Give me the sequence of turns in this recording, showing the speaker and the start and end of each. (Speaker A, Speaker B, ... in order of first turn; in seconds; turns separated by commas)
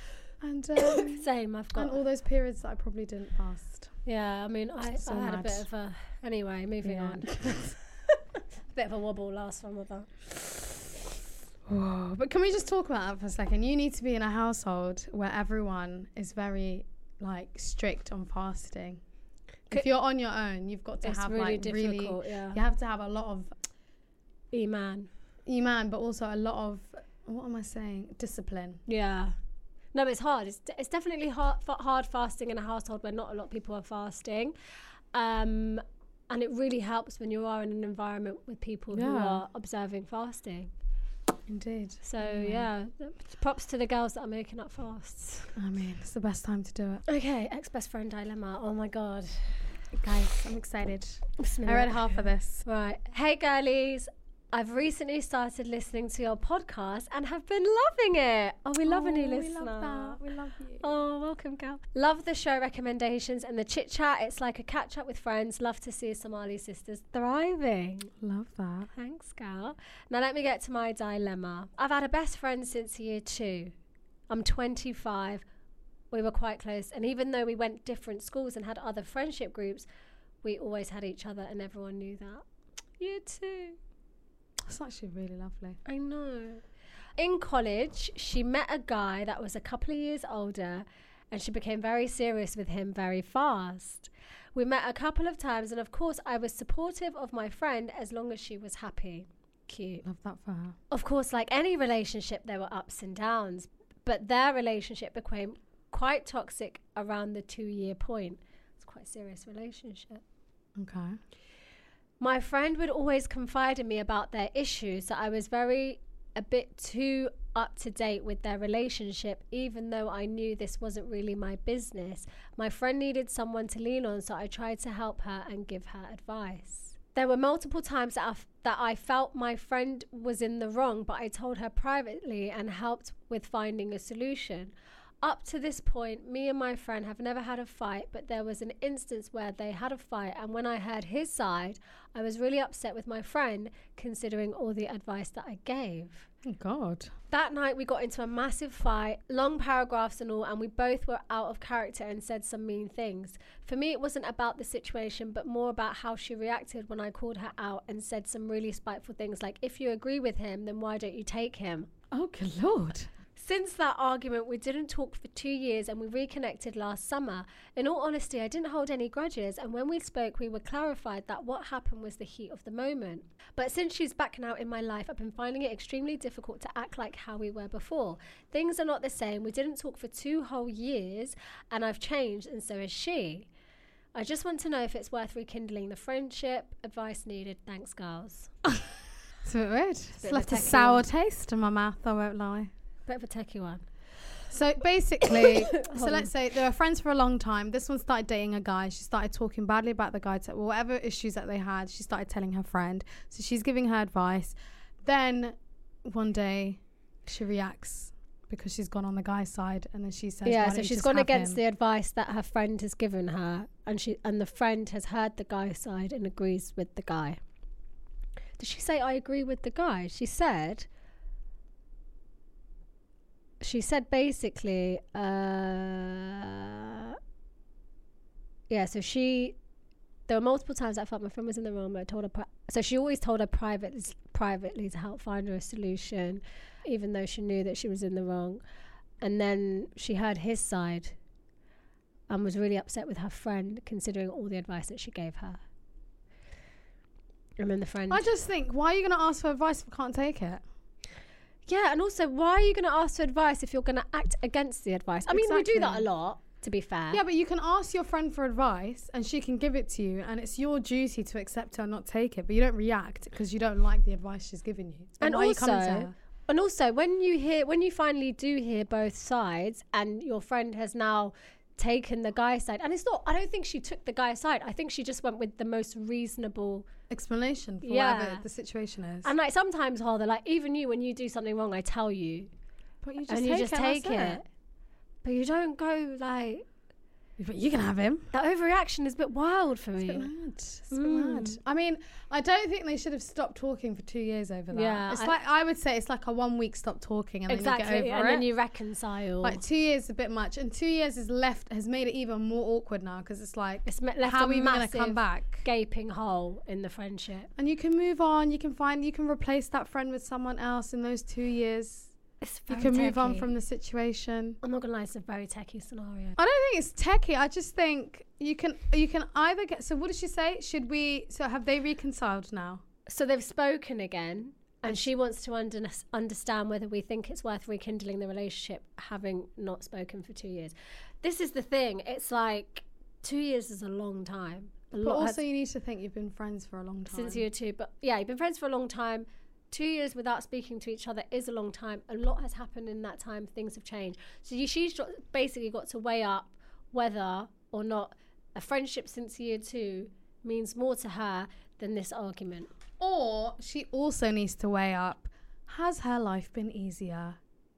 Speaker A: 0.4-1.2, Speaker B: 0.8-2.0, Speaker A: 1.8-3.9, Speaker B: 4.0-7.6, Speaker A: 4.9-5.6, Speaker A: 6.8-7.8, Speaker B: 8.7-10.1, Speaker A: 11.7-19.0, Speaker A: 19.7-23.5, Speaker B: 21.0-22.6, Speaker B: 24.5-25.1, Speaker A: 25.4-28.8, Speaker B: 28.9-29.3, Speaker B: 29.9-34.5, Speaker B: 35.1-40.7, Speaker A: 38.9-39.4, Speaker A: 41.5-42.7, Speaker B: 42.0-45.5, Speaker A: 45.5-47.0, Speaker B: 47.1-49.7, Speaker A: 49.9-52.6, Speaker B: 51.4-60.2, Speaker A: 58.8-60.9, Speaker B: 60.8-68.1, Speaker A: 68.2-68.9, Speaker B: 68.9-73.7, Speaker B: 74.3-75.4, Speaker B: 76.1-79.8, Speaker B: 80.4-82.4, Speaker B: 83.0-83.8, Speaker A: 84.6-85.8, Speaker B: 85.8-86.6, Speaker B: 87.2-100.0, Speaker A: 100.0-100.8, Speaker B: 100.9-110.2, Speaker A: 110.8-111.2, Speaker B: 112.2-146.3, Speaker A: 146.4-147.1, Speaker B: 147.3-161.9, Speaker A: 162.1-163.1, Speaker B: 163.3-183.5, Speaker B: 184.1-188.5, Speaker A: 189.4-192.7, Speaker B: 190.2-191.0, Speaker B: 193.1-193.8, Speaker A: 194.5-211.6, Speaker B: 195.3-196.3, Speaker B: 210.4-217.4, Speaker B: 218.6-220.9, Speaker B: 223.6-227.2, Speaker B: 228.7-229.6, Speaker B: 230.3-238.6, Speaker B: 239.2-241.1, Speaker B: 242.3-245.6, Speaker B: 247.6-248.3, Speaker A: 248.1-250.6, Speaker B: 251.7-257.2, Speaker A: 255.3-256.1, Speaker A: 257.1-266.1, Speaker B: 265.2-276.9, Speaker A: 277.1-279.3, Speaker B: 277.8-278.4, Speaker B: 279.2-282.5, Speaker A: 283.0-284.4, Speaker B: 283.3-284.4, Speaker B: 285.2-286.6, Speaker A: 287.4-288.3, Speaker B: 288.3-290.3, Speaker A: 290.0-298.4, Speaker B: 290.9-291.6, Speaker B: 294.7-295.4, Speaker B: 297.5-299.6, Speaker A: 299.4-305.6, Speaker B: 303.9-307.5, Speaker A: 307.6-312.1, Speaker B: 312.4-313.5, Speaker A: 312.7-314.6, Speaker B: 314.6-316.4, Speaker A: 316.4-322.8, Speaker B: 323.1-335.4, Speaker A: 335.0-337.4, Speaker B: 337.1-352.7, Speaker A: 353.0-357.4